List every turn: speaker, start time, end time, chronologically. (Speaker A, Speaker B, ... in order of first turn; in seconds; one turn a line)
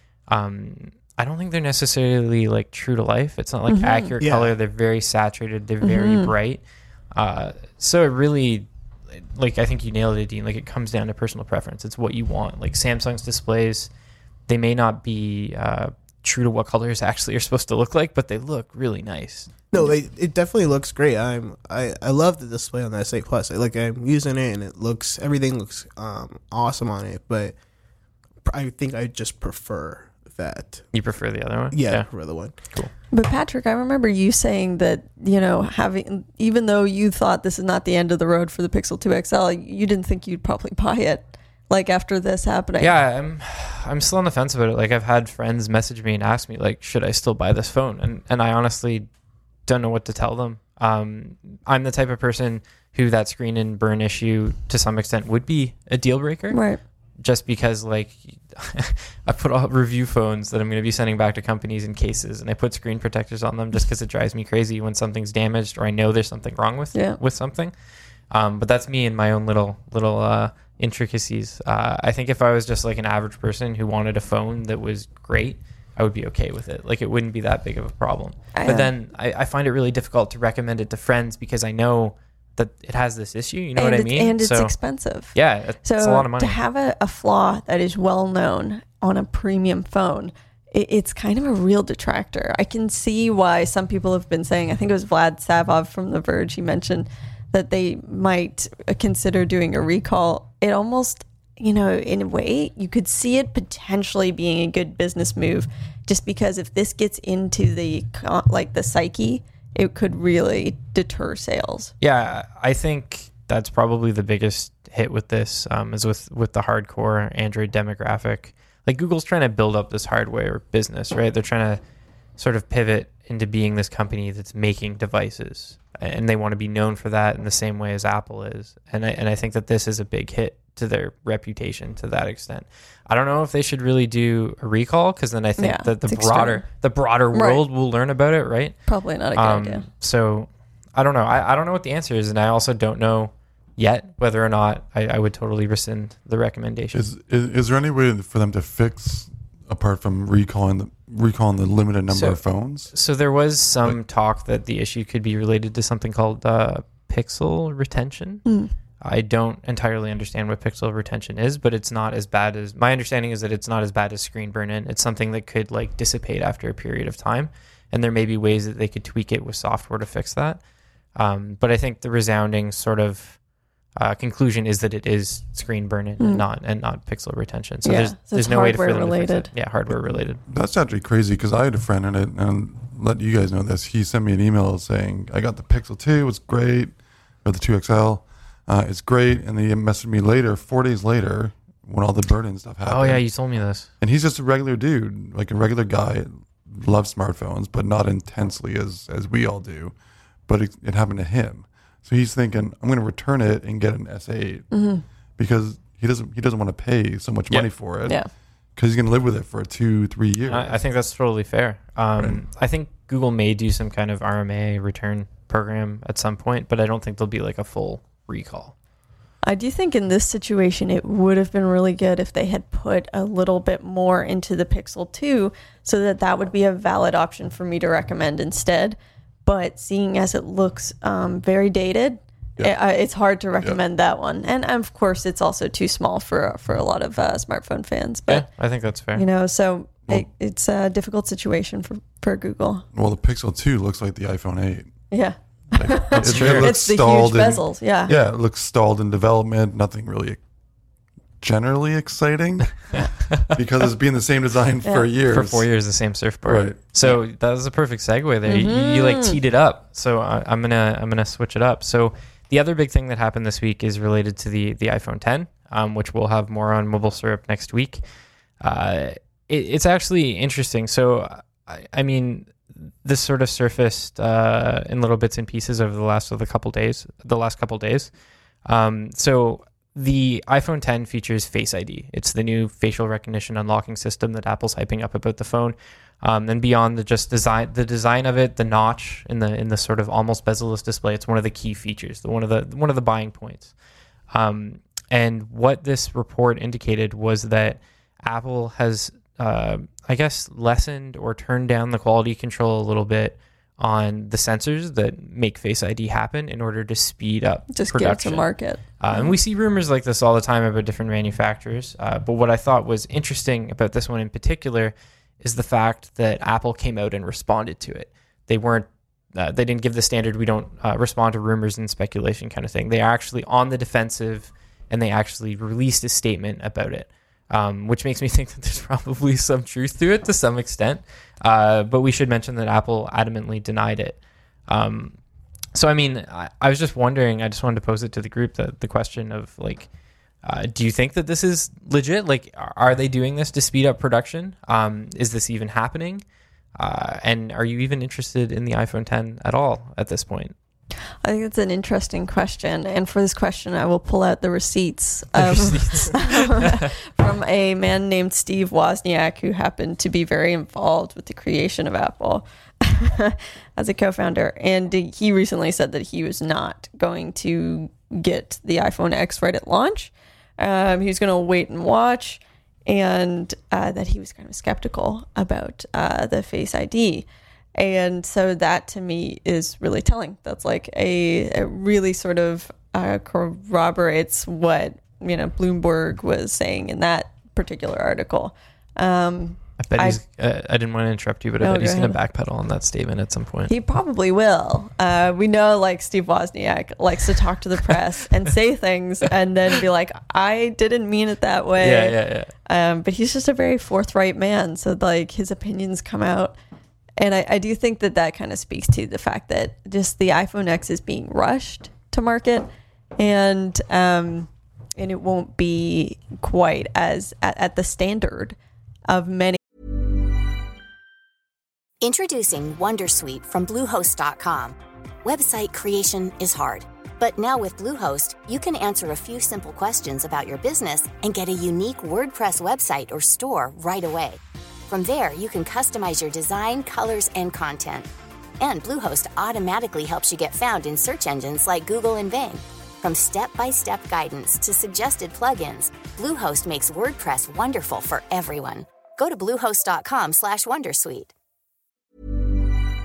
Speaker A: 0.3-6.6
Speaker B: 3.7-4.1
Speaker C: 4.2-4.5
Speaker B: 5.8-6.3
Speaker A: 7.1-13.9
Speaker A: 14.5-19.5
Speaker C: 19.7-27.6
Speaker C: 28.4-30.8
Speaker A: 30.9-32.1
Speaker C: 31.7-32.5
Speaker B: 33.1-43.0
Speaker A: 42.8-49.1
Speaker A: 49.7-56.6
Speaker B: 56.5-56.8
Speaker A: 57.2-67.7
Speaker A: 68.3-84.8
Speaker B: 78.5-78.9
Speaker B: 83.8-111.9
Speaker A: 85.3-86.6
Speaker A: 112.0-121.8
Speaker A: 122.4-138.8
Speaker B: 135.6-136.7
Speaker B: 137.3-137.6
Speaker B: 138.9-139.8
Speaker A: 139.3-147.1
Speaker D: 146.9-152.9
Speaker A: 152.1-158.4
Speaker B: 158.5-158.7
Speaker A: 159.0-170.6
Speaker A: 171.2-173.4
Speaker A: 174.0-180.4
Speaker B: 176.2-176.4
Speaker B: 177.8-179.5
Speaker D: 180.5-193.2
Speaker A: 192.9-193.9
Speaker D: 194.0-199.9
Speaker D: 200.5-204.7
Speaker B: 204.7-205.0
Speaker D: 205.4-208.2
Speaker D: 208.8-210.8
Speaker A: 210.5-218.7
Speaker B: 219.4-238.5
Speaker A: 238.3-239.2
Speaker B: 239.2-242.8
Speaker D: 242.9-244.9
Speaker B: 245.1-248.2
Speaker D: 245.8-250.4
Speaker A: 246.2-246.7
Speaker D: 251.4-255.7
Speaker A: 252.9-253.6
Speaker A: 255.3-268.0
Speaker D: 256.4-256.8
Speaker B: 258.5-259.4
Speaker A: 268.6-278.1
Speaker A: 278.7-293.7
Speaker A: 294.3-308.5
Speaker B: 307.7-309.4
Speaker A: 309.0-335.2
Speaker A: 335.7-339.9
Speaker A: 340.4-346.2
Speaker A: 346.8-350.6
Speaker B: 351.2-390.2
Speaker A: 355.4-356.9
Speaker A: 389.8-393.7
Speaker B: 391.6-392.2
Speaker B: 393.7-406.6
Speaker A: 401.8-402.5
Speaker B: 407.2-412.7
Speaker B: 413.2-418.6
Speaker B: 419.1-419.6
Speaker E: 422.0-438.1
Speaker E: 438.6-451.3